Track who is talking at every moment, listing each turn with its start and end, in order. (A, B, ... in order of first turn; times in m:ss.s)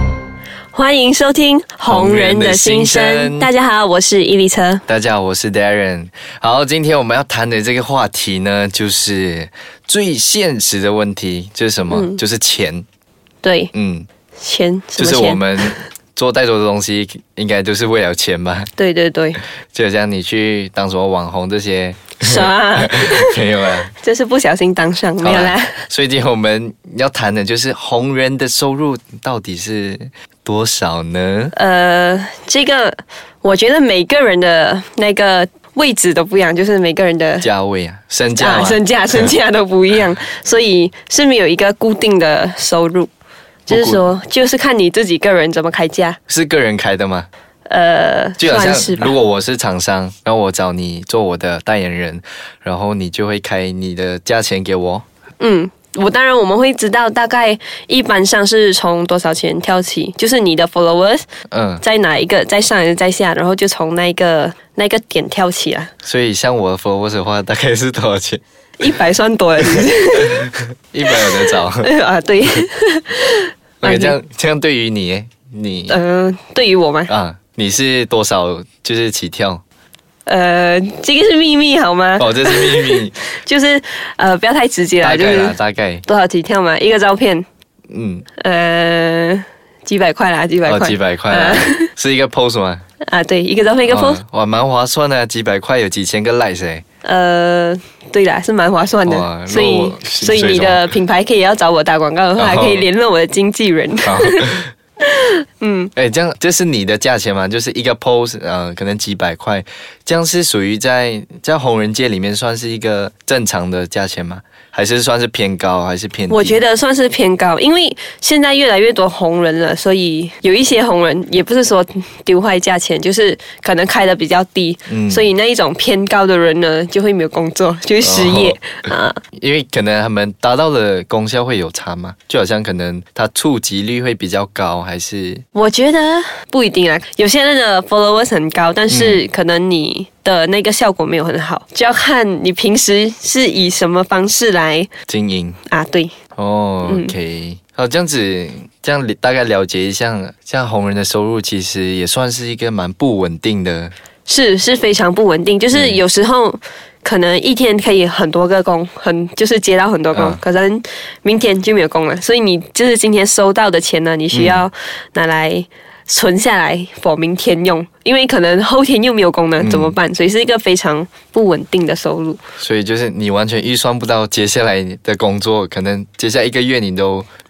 0:00.7-0:04.8 A
0:01.9-0:03.5 B
0:04.9-0:12.8 B
0:11.9-0:12.2 A
0:13.4-0:13.7 A
0:13.7-0:14.1 B
0:14.4-0:15.7 A
0:15.0-0:18.7 B
0:18.8-0:19.4 A
0:19.7-0:23.9 B
0:22.2-0:23.4 A
0:23.9-0:25.8 A
0:25.2-0:31.5 B
0:31.5-0:37.5 A
0:37.4-0:39.3 B
0:38.4-0:43.1 A
0:43.7-0:44.0 B
0:43.7-0:46.2 A
0:46.3-0:47.3 B
0:47.7-0:49.1 A
0:48.4-0:55.0 B
0:55.4-1:01.2 A
1:01.5-1:01.8 B
1:01.8-1:05.9 A
1:06.0-1:08.4 B
1:08.8-1:10.4 A
1:10.3-1:11.9 B
1:11.1-1:14.1 A
1:13.8-1:16.0 B
1:15.9-1:17.1 A
1:17.1-1:19.6 B
1:20.2-1:27.4 A
1:22.2-1:23.2 B
1:25.0-1:26.0 B
1:27.9-1:28.2 B
1:28.4-1:31.9 A
1:30.6-1:32.8 B
1:33.0-1:34.2 A
1:33.9-1:36.8 B
1:37.0-1:45.9 A
1:39.0-1:40.9 B
1:42.4-1:42.8 B
1:44.0-1:44.7 B
1:46.0-1:56.6 B
1:56.3-2:09.2 A
2:04.9-2:05.3 B
2:08.0-2:08.6 B
2:09.4-2:15.4 B
2:15.5-2:24.9 A
2:18.9-2:19.2 B
2:25.1-2:25.6 B
2:25.7-2:26.1 A
2:26.4-2:33.9 B
2:26.8-2:27.1 A
2:34.2-2:52.4 A
2:35.7-2:36.0 B
2:40.1-2:40.4 B
2:44.3-2:44.6 B
2:49.6-2:50.0 B
2:52.6-2:57.3 B